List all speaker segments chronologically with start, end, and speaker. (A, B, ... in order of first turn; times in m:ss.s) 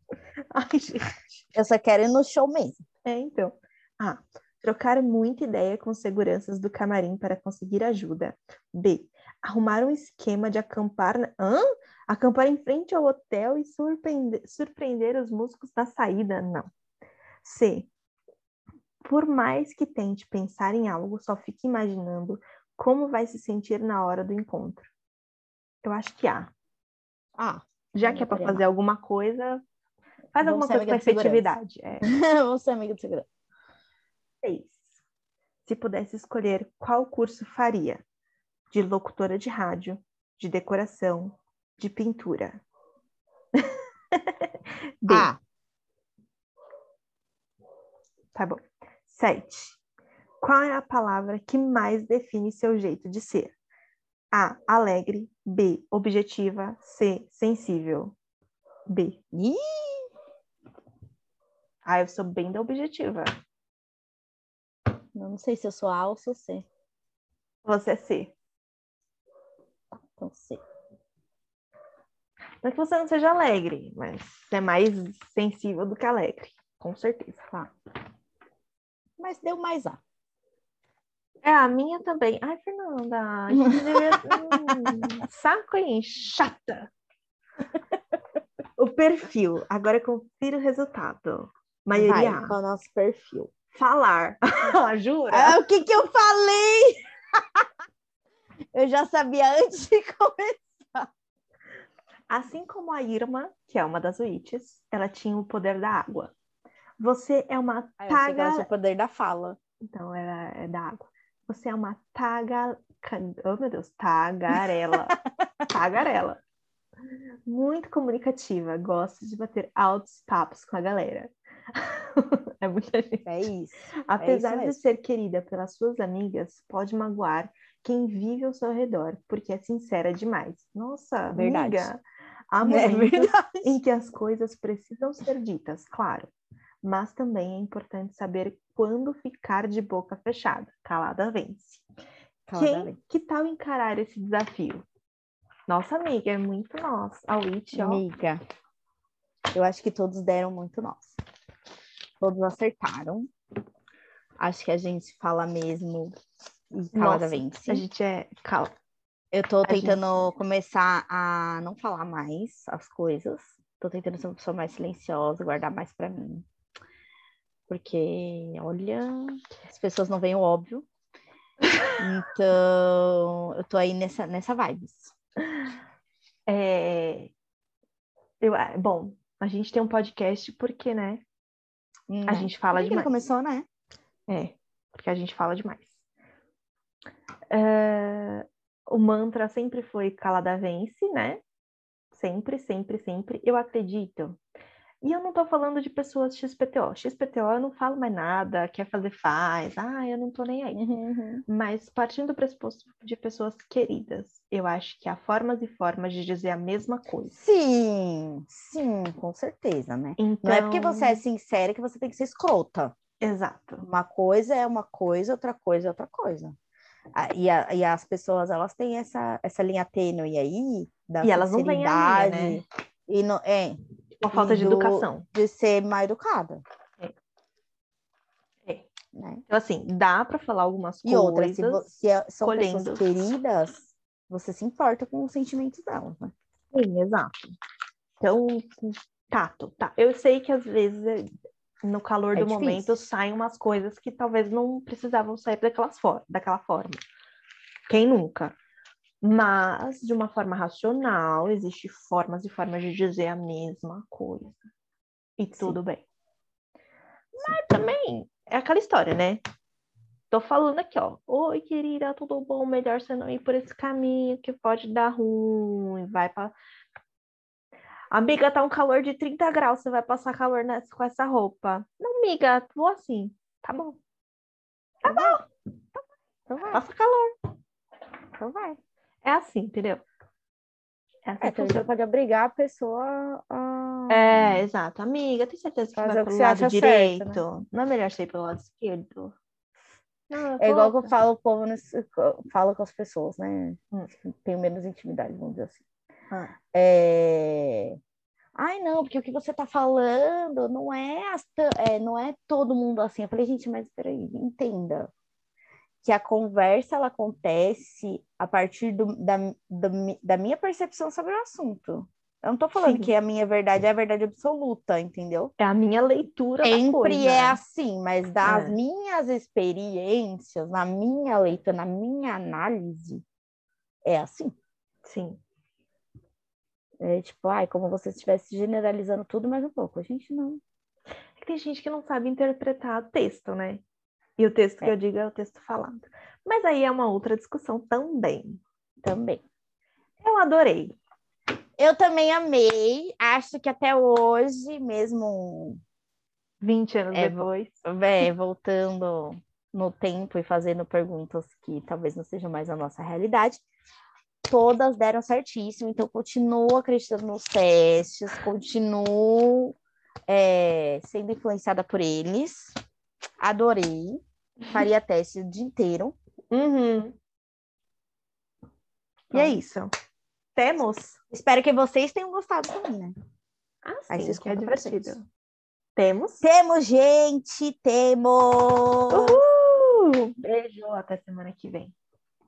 0:00.5-0:01.2 A
0:01.6-0:02.8 B
0:03.0-0:16.7 A
0:17.4-0:17.9 A
0:19.0-0:24.9 A
0:25.8-0:26.5 A
0:27.4-0:28.6 B
0:27.9-0:29.6 A
0:30.3-0:32.1 A
0:30.4-0:33.3 B
0:34.4-0:34.8 A
0:35.7-0:38.0 A
0:38.7-0:42.6 A
0:43.6-0:44.5 A
0:45.0-0:45.3 A
0:45.1-0:45.4 B
0:48.3-0:49.8 A
0:50.4-0:53.5 A
0:54.3-0:58.2 A
0:58.9-0:59.2 A
0:59.3-1:00.1 B
1:01.8-1:03.3 A
1:05.2-1:06.7 B
1:07.6-1:08.3 A
1:10.1-1:10.6 B
1:12.6-1:17.5 A
1:19.2-1:20.0 B
1:21.4-1:26.9 A
1:23.5-1:25.0 B
1:28.8-1:32.6 A
1:31.9-1:33.5 B
1:33.7-1:35.6 A
1:35.3-1:37.0 B
1:38.7-1:41.1 B
1:42.3-1:46.3 A
1:47.0-1:48.7 A
1:48.0-1:49.6 B
1:49.8-1:55.2 A
1:55.7-1:56.4 A
1:57.5-2:03.3 A
2:03.2-2:04.8 B
2:04.1-2:16.3 A
2:11.3-2:11.9 B
2:12.6-2:13.8 B
2:16.8-2:21.8 A
2:22.5-2:23.0 B
2:22.6-2:24.8 A
2:25.7-2:28.0 A
2:27.7-2:28.4 B
2:29.5-2:31.2 B
2:32.2-2:33.3 B
2:34.4-2:36.2 B
2:36.7-2:37.8 B
2:36.9-2:38.7 A
2:39.3-2:46.5 B
2:39.6-2:40.0 A
2:47.7-2:50.9 B
2:51.7-2:52.0 A
2:52.0-2:55.1 B
2:56.5-2:57.3 A
2:58.4-3:01.2 A
3:02.1-3:03.7 B
3:02.3-3:03.1 A
3:04.3-3:06.0 A
3:07.5-3:11.4 A
3:12.1-3:14.4 A
3:15.0-3:20.8 A
3:20.7-3:21.4 B
3:21.5-3:27.4 A
3:27.3-3:32.9 B
3:30.2-3:31.2 A
3:33.2-3:33.8 A
3:33.8-3:36.6 B
3:37.1-3:43.8 B
3:41.2-3:42.6 A
3:44.2-3:45.2 A
3:44.3-3:46.6 B
3:49.2-3:49.4 B
3:49.5-3:51.9 A
3:51.0-3:56.3 B
3:52.4-3:53.0 A
3:56.7-3:57.6 A
3:58.2-4:01.3 A
4:01.8-4:07.0 A
4:02.4-4:03.0 B
4:07.9-4:08.6 A
4:09.2-4:14.6 A
4:15.4-4:16.0 A
4:17.4-4:19.4 A
4:20.3-4:26.5 A
4:28.1-4:34.0 A
4:35.0-4:36.0 A
4:35.1-4:35.4 B
4:36.5-4:36.8 B
4:36.7-4:37.3 A
4:38.4-4:38.8 B
4:39.2-4:40.0 A
4:41.3-4:41.9 A
4:41.4-4:44.6 B
4:44.1-4:49.4 A
4:46.0-4:47.4 B
4:50.3-4:51.1 A
4:50.6-4:55.8 B
4:56.3-4:56.6 A
4:56.7-4:58.0 B
4:58.6-5:05.1 B
5:06.0-5:15.5 B
5:12.8-5:13.1 A
5:15.6-5:17.6 A
5:16.6-5:23.2 B
5:18.4-5:18.8 A
5:24.0-5:24.6 B
5:25.0-5:25.4 A
5:27.0-5:30.6 B
5:31.4-5:33.8 A
5:34.4-5:38.6 A
5:39.0-5:39.4 B
5:40.2-5:41.0 A
5:41.8-5:45.8 B
5:46.6-5:47.8 A
5:47.1-5:53.6 B
5:54.5-5:59.8 B
6:00.3-6:02.7 B
6:03.4-6:06.2 B
6:06.5-6:07.2 A
6:09.3-6:09.9 A
6:10.6-6:11.2 A
6:11.3-6:13.1 B
6:13.8-6:15.2 A
6:14.1-6:15.2 B
6:16.0-6:16.4 A
6:16.4-6:19.4 B
6:19.1-6:22.0 A